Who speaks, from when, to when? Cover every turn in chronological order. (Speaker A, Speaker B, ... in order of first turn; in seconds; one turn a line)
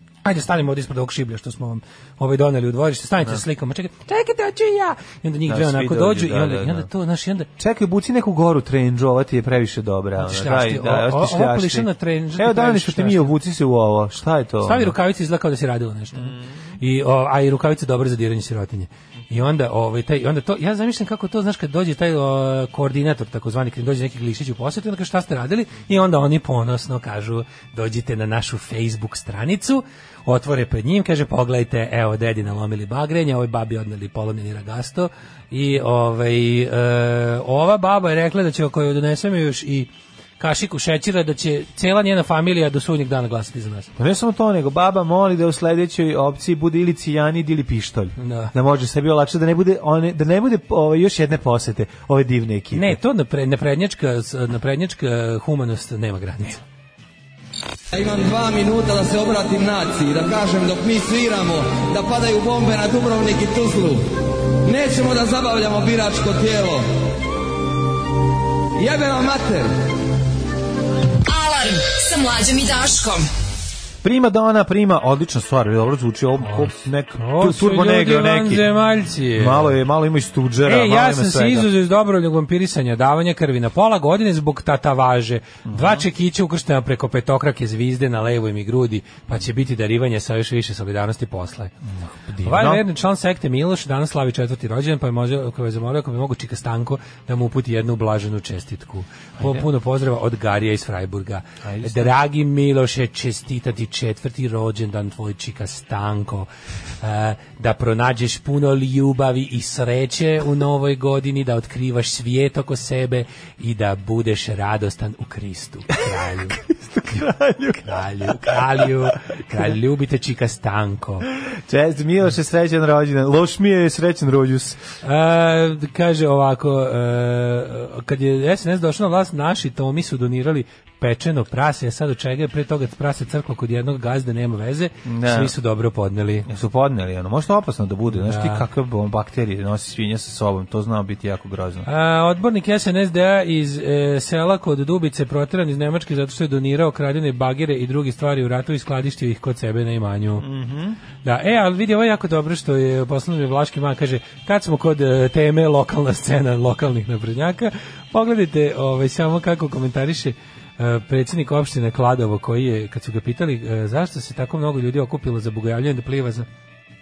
Speaker A: 0.2-7.5
Speaker B: 5.5-6.9
Speaker B: 7.6-14.9
Speaker A: 10.2-13.3
Speaker A: 14.6-39.9
Speaker A: 40.4-43.9
Speaker B: 44.0-53.0
Speaker A: 48.2-48.5
Speaker A: 52.7-56.6
Speaker C: 57.9-64.1
Speaker C: 64.6-66.8
Speaker C: 68.8-69.7
Speaker D: 71.2-73.3
Speaker B: 74.0-78.7
Speaker A: 76.4-79.8
Speaker B: 79.4-81.7
Speaker A: 80.7-91.7
Speaker B: 85.7-86.0
Speaker B: 92.0-92.8
Speaker A: 92.4-106.5
Speaker B: 99.4-99.7
Speaker B: 101.6-102.1
Speaker A: 107.0-116.6
Speaker B: 116.6-119.6
Speaker A: 117.8-121.3
Speaker B: 121.5-124.8
Speaker A: 125.0-136.5
Speaker B: 135.1-135.5
Speaker B: 136.5-141.9
Speaker A: 138.2-138.6
Speaker A: 141.9-150.4
Speaker B: 150.4-151.0
Speaker A: 151.2-166.5